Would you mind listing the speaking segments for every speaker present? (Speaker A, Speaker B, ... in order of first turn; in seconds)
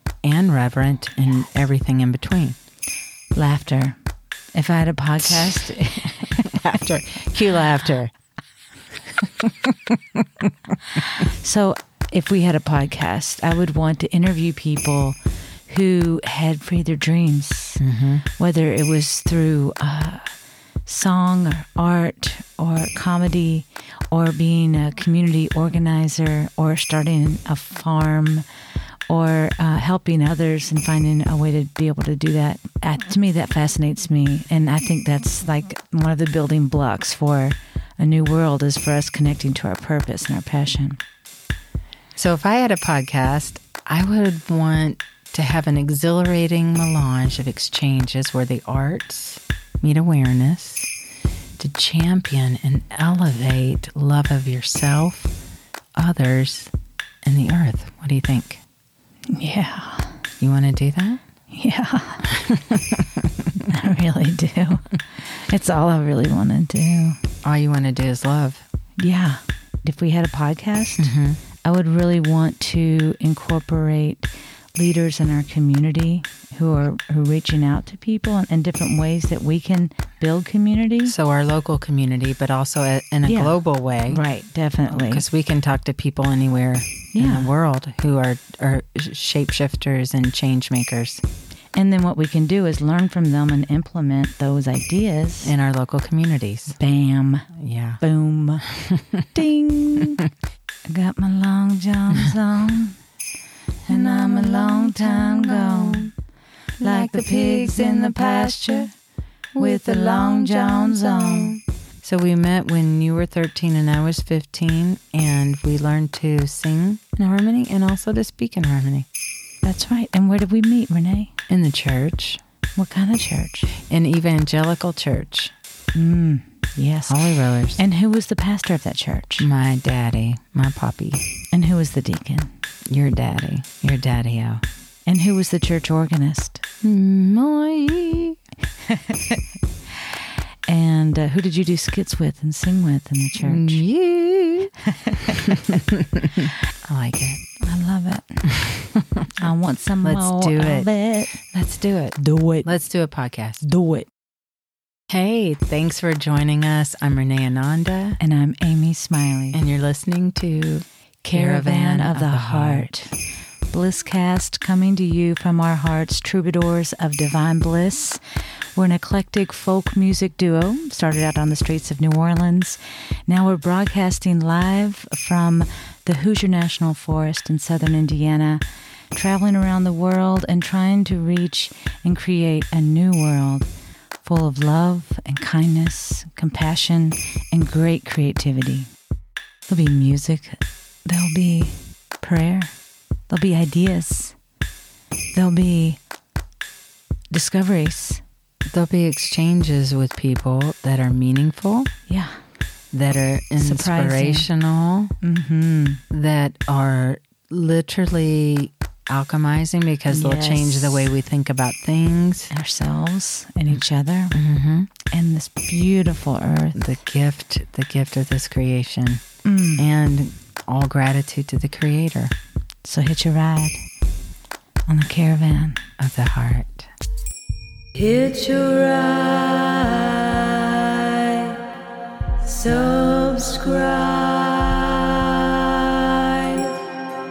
Speaker A: 0.2-2.6, 6.3-8.1, 17.8-18.2, 42.1-50.9, 51.6-55.3, 56.0-56.7, 57.2-58.6, 60.4-61.2, 62.3-63.1, 67.4-68.6, 71.0-71.4, 81.0-84.2, 84.9-91.2, 95.4-96.8, 97.5-98.0, 98.8-99.2, 103.9-106.1, 106.8-108.9, 109.5-119.1, 121.5-122.4, 123.8-125.5, 127.1-127.8, 129.4-131.2, 132.9-134.6, 136.8-138.4, 143.4-144.7, 145.3-147.4, 148.5-149.2, 150.0-150.9, 151.5-153.7, 155.1-158.2, 159.5-162.9, 198.7-201.9, 202.9-205.1, 206.1-212.5, 214.3-214.9, 216.8-219.2, 219.8-222.3, 226.0-226.9
Speaker B: 3.3-4.0, 4.5-6.5, 10.9-17.8, 18.4-20.3, 20.8-28.4, 29.1-41.0, 59.3-60.2, 61.5-62.4, 63.6-67.2, 69.0-81.2, 83.2-83.6, 84.1-85.2, 87.1-87.5, 91.8-95.5, 96.8-97.5, 98.0-98.7, 99.3-100.2, 100.9-103.0, 103.9-106.1, 106.8-108.9, 109.6-111.6, 119.6-121.3, 122.8-123.7, 125.9-129.5, 131.5-132.5, 135.1-136.6, 138.8-139.4, 140.7-143.8, 144.9-145.5, 147.6-148.5, 149.4-151.4, 152.2-152.7, 153.6-154.1, 158.2-159.6, 161.2-163.1, 163.7-168.2, 168.8-178.6, 179.1-183.7, 184.2-188.9, 189.7-192.7, 193.3-194.4, 195.3-196.0, 197.3-198.2, 202.1-202.3, 203.6-204.5, 205.2-206.0, 210.1-211.1, 212.5-214.4, 215.1-217.0, 219.4-219.9, 222.8-223.8, 224.9-225.8, 228.0-231.7, 232.4-236.8